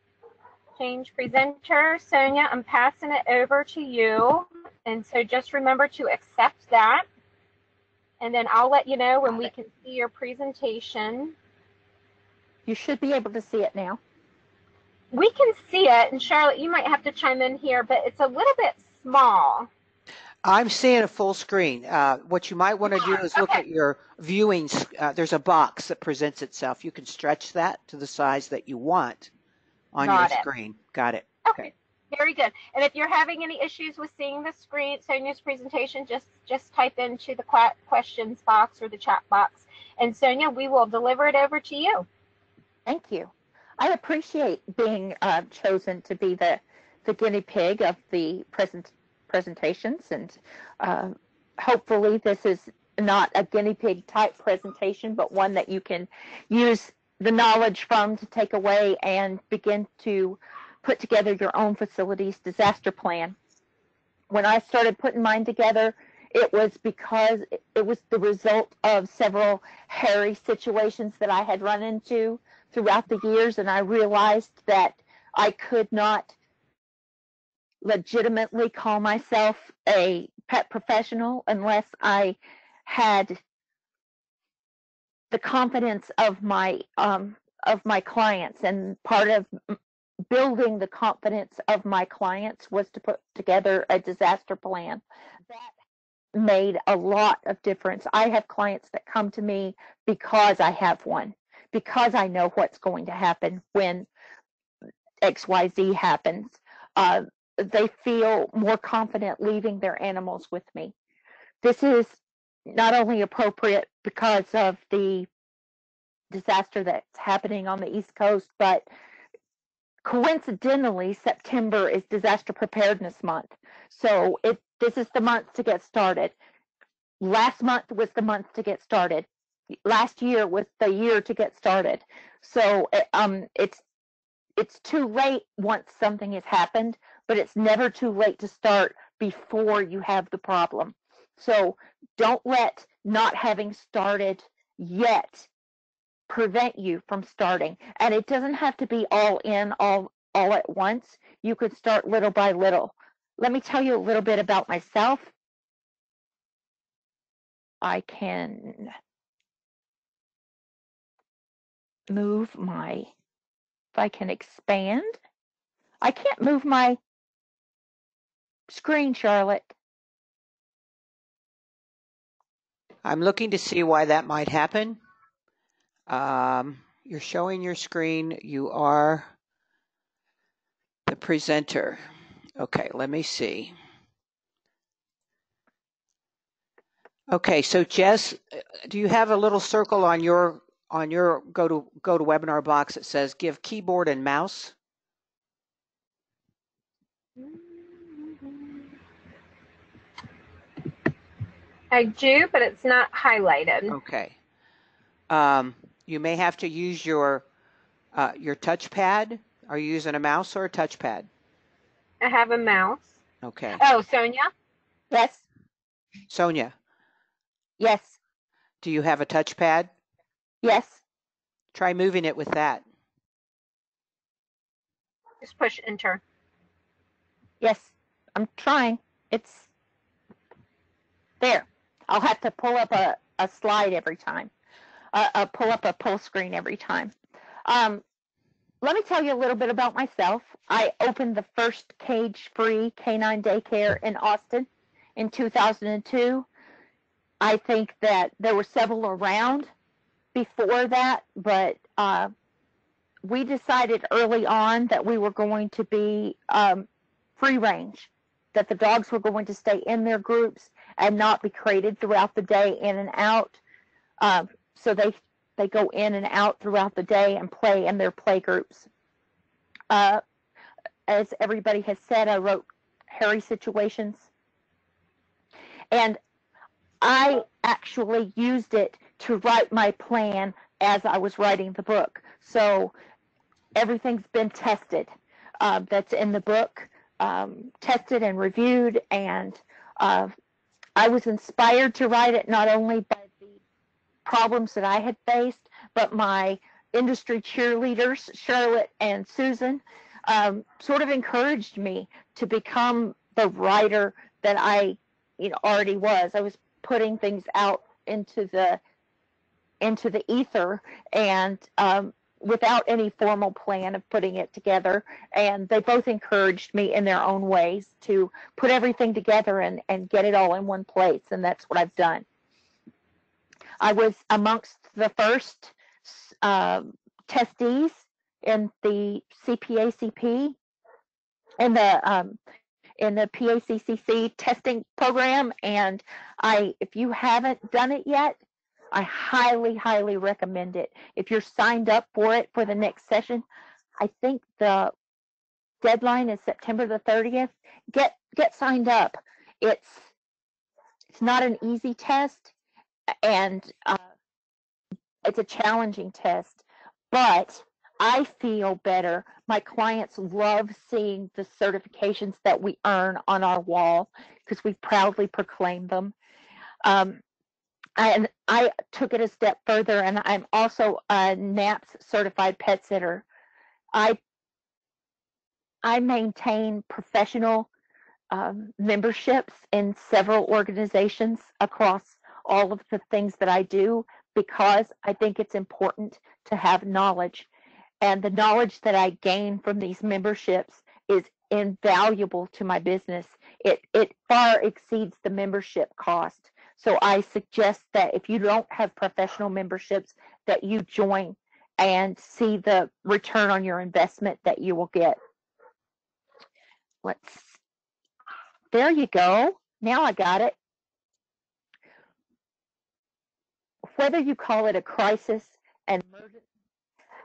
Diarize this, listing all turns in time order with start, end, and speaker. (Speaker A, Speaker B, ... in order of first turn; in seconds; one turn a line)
Speaker A: 0.8-7.0
Speaker A: 8.2-11.3
Speaker B: 12.7-14.0
Speaker A: 15.1-19.7
Speaker C: 20.4-29.3
Speaker A: 22.9-23.6
Speaker C: 29.9-31.7
Speaker A: 30.0-30.5
Speaker A: 31.5-42.0
Speaker B: 42.9-63.4
Speaker B: 64.3-76.3
Speaker B: 77.8-83.4
Speaker B: 85.3-89.7
Speaker B: 90.3-95.7
Speaker B: 96.3-104.1
Speaker B: 105.2-110.9
Speaker B: 111.6-115.3
Speaker B: 116.3-118.8
Speaker B: 120.0-126.3
Speaker B: 127.2-129.3
Speaker B: 129.8-133.8
Speaker B: 134.6-145.5
Speaker B: 146.3-155.3
Speaker B: 157.8-158.9
Speaker B: 162.1-163.1
Speaker B: 163.9-165.2
Speaker B: 166.0-167.0
Speaker B: 168.7-169.7
Speaker C: 173.0-175.0
Speaker C: 176.1-179.3
Speaker C: 181.1-182.0
Speaker C: 182.6-183.7
Speaker C: 187.3-194.7
Speaker A: 197.4-198.8
Speaker A: 201.9-203.9
Speaker C: 203.9-204.3
Speaker C: 205.3-207.4
Speaker C: 208.1-211.3
Speaker A: 212.2-213.2
Speaker C: 213.4-213.8
Speaker A: 213.7-214.5
Speaker B: 215.1-215.4
Speaker C: 216.3-216.7
Speaker B: 217.8-218.1
Speaker C: 218.8-219.9
Speaker B: 220.6-221.0
Speaker C: 221.7-222.8
Speaker A: 225.4-226.2
Speaker B: 227.6-229.7
Speaker B: 231.4-234.5
Speaker B: 235.1-237.1
Speaker B: 237.6-238.0
Speaker B: 238.8-246.5
Speaker B: 247.4-249.7
Speaker B: 250.3-252.3
Speaker B: 253.2-256.9
Speaker B: 257.4-263.6
Speaker B: 264.2-268.9
Speaker B: 269.9-270.2
Speaker B: 271.1-274.3
Speaker B: 275.9-276.2
Speaker B: 277.0-282.9
Speaker B: 283.7-290.3
Speaker B: 290.9-293.6
Speaker B: 294.2-308.8
Speaker B: 309.8-322.2
Speaker B: 323.8-330.6
Speaker B: 331.6-332.4
Speaker B: 333.0-338.4
Speaker B: 338.9-343.4
Speaker B: 344.0-344.9
Speaker B: 345.8-350.1
Speaker B: 351.1-352.5
Speaker B: 353.2-354.1
Speaker B: 355.2-366.1
Speaker B: 366.8-367.2
Speaker B: 368.0-373.2
Speaker B: 373.9-374.2
Speaker B: 375.8-377.7
Speaker B: 378.3-387.5
Speaker B: 388.0-405.2
Speaker B: 407.0-407.6
Speaker B: 408.7-410.6
Speaker B: 413.9-416.4